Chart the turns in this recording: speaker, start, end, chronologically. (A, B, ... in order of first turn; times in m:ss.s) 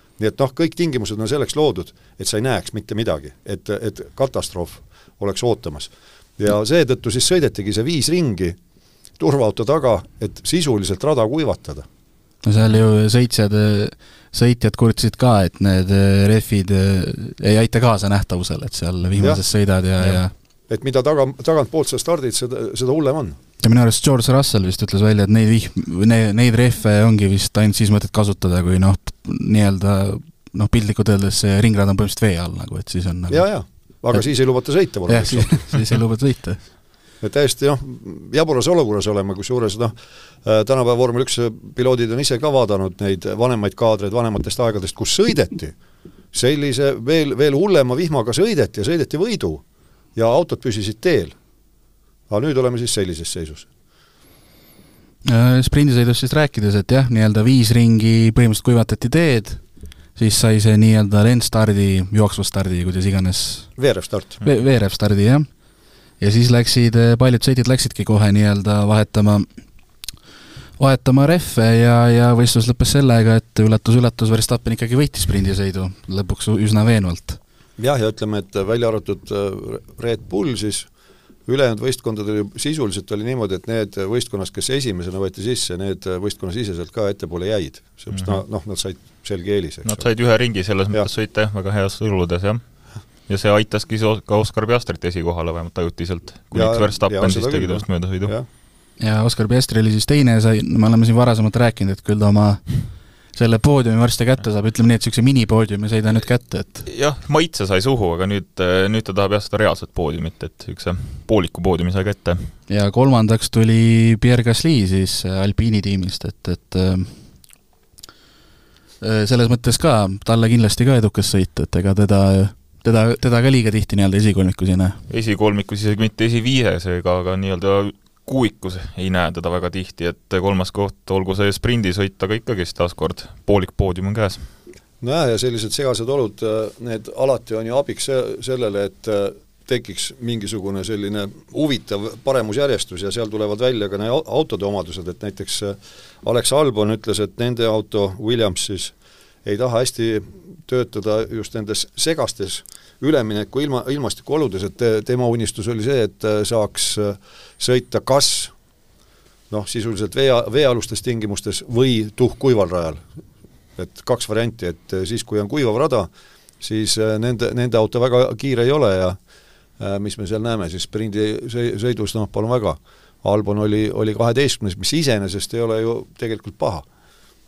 0:00.2-0:08.6 A
0:09.2-0:11.9 A
0:12.4-0:20.3 B
0:19.2-0:19.4 A
0:20.7-0:23.4 A
0:23.6-0:33.4 B
0:33.3-0:35.8 A
0:35.1-0:36.6 B
0:37.2-0:45.8 A
0:46.3-0:49.6 A
0:50.2-0:51.4 A
0:52.3-0:53.7 A
0:55.2-0:59.6 B
1:00.2-1:03.7 B
1:03.8-1:04.4 A
1:04.4-1:05.5 B
1:06.2-1:09.5 B
1:10.8-1:17.4 B
1:17.8-1:20.9 A
1:21.5-1:30.1 A
1:28.1-1:28.4 C
1:29.8-1:38.3 C
1:36.5-1:38.5 A
1:39.0-1:46.9 B
1:46.9-1:52.5 C
1:52.7-1:57.4 B
1:59.0-2:05.0 B
2:05.1-2:14.5 C
2:15.0-2:38.5 A
2:39.5-2:43.0 A
2:43.8-2:46.1 A
2:46.6-2:49.2 A
2:49.8-2:56.8 A